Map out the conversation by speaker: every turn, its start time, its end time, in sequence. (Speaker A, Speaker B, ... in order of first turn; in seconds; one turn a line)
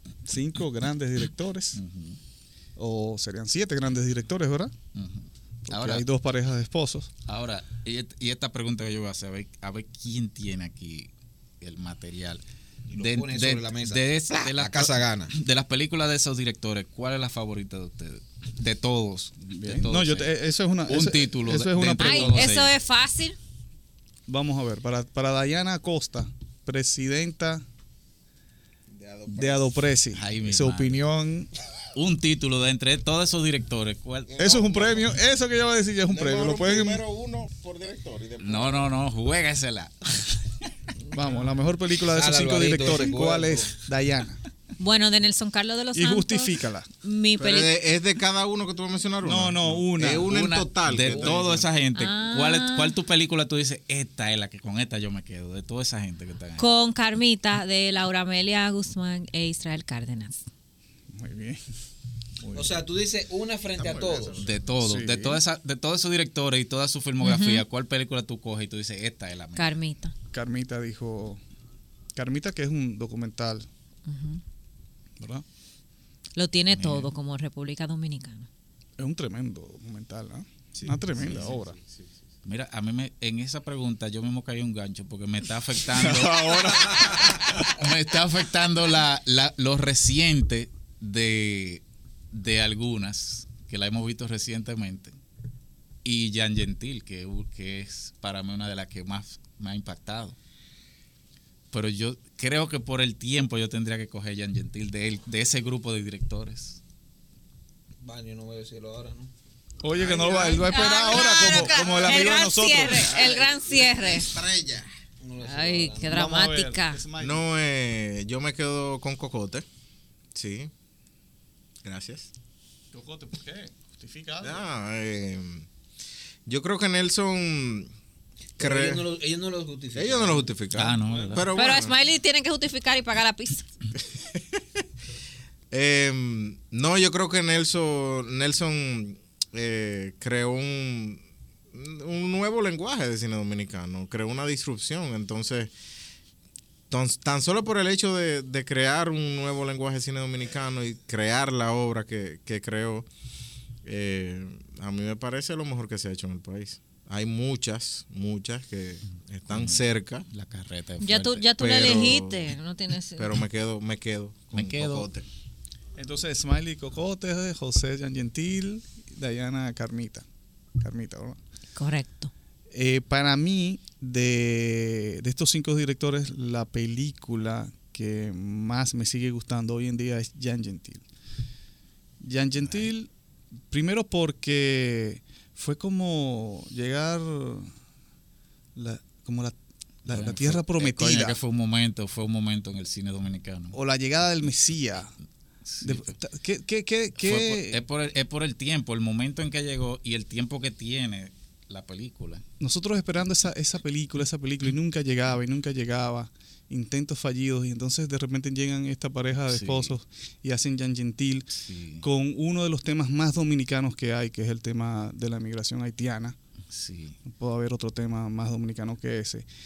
Speaker A: 0.2-1.8
Speaker B: 1.8-2.2
Speaker A: 2.8-4.7
Speaker B: 4.9-6.1
Speaker A: 5.7-7.1
Speaker B: 7.3-11.1
Speaker B: 11.6-12.4
Speaker C: 12.9-15.3
Speaker B: 12.9-20.3
Speaker A: 19.5-22.6
Speaker B: 20.9-22.7
Speaker D: 22.0-23.4
Speaker A: 24.3-27.6
Speaker E: 28.9-29.8
Speaker A: 29.3-31.5
Speaker B: 30.1-31.0
Speaker B: 31.9-34.5
Speaker E: 34.3-35.1
Speaker A: 34.4-37.0
Speaker E: 36.1-38.9
Speaker B: 38.4-40.4
Speaker A: 41.1-44.4
Speaker C: 42.1-43.8
Speaker D: 44.8-47.7
Speaker A: 45.9-46.9
Speaker E: 47.4-51.7
Speaker A: 49.2-50.4
Speaker B: 50.2-56.7
Speaker D: 52.0-52.9
Speaker D: 56.6-60.4
Speaker A: 61.1-61.6
Speaker C: 62.5-64.5
Speaker E: 63.8-64.7
Speaker B: 64.4-69.8
Speaker A: 64.8-65.4
Speaker D: 67.2-67.7
Speaker D: 69.6-70.1
Speaker A: 70.3-71.4
Speaker A: 72.2-73.7
Speaker D: 74.1-74.4
Speaker A: 75.2-75.5
Speaker D: 76.4-78.5
Speaker B: 76.7-77.1
Speaker A: 79.0-81.8
Speaker E: 80.8-82.1
Speaker B: 82.4-95.2
Speaker A: 86.0-87.3
Speaker E: 86.5-86.8
Speaker B: 96.0-100.4
Speaker B: 101.7-106.8
Speaker C: 108.0-109.3
Speaker A: 109.8-113.1
Speaker C: 110.0-111.2
Speaker D: 110.2-114.3
Speaker E: 112.8-114.9
Speaker C: 115.2-116.2
Speaker D: 115.4-117.0
Speaker A: 116.1-117.5
Speaker E: 117.2-119.7
Speaker E: 120.3-120.7
Speaker E: 121.8-122.3
Speaker A: 122.9-124.6
Speaker E: 124.4-125.7
Speaker E: 126.5-127.9
Speaker E: 128.6-129.0
Speaker C: 128.6-130.5
Speaker E: 129.9-132.0
Speaker B: 130.7-131.5
Speaker D: 131.5-133.7
Speaker E: 135.7-141.2
Speaker E: 141.7-145.7
Speaker E: 146.9-153.1
Speaker E: 153.8-160.3
Speaker B: 159.5-161.5
Speaker D: 161.0-163.3
Speaker E: 161.6-162.6
Speaker E: 163.2-165.3
Speaker B: 164.5-165.1
Speaker A: 166.0-170.3
Speaker A: 170.8-171.4
Speaker D: 171.8-172.3
Speaker A: 172.7-181.0
Speaker A: 182.2-183.1
Speaker A: 183.7-187.7
Speaker A: 188.8-191.4
Speaker B: 190.1-193.8
Speaker A: 193.7-195.1
Speaker B: 195.7-196.1
Speaker A: 195.8-197.8
Speaker B: 197.2-202.4
Speaker A: 202.6-216.4
Speaker B: 209.5-209.9
Speaker B: 211.6-212.1
Speaker B: 216.7-217.2
Speaker A: 217.3-219.5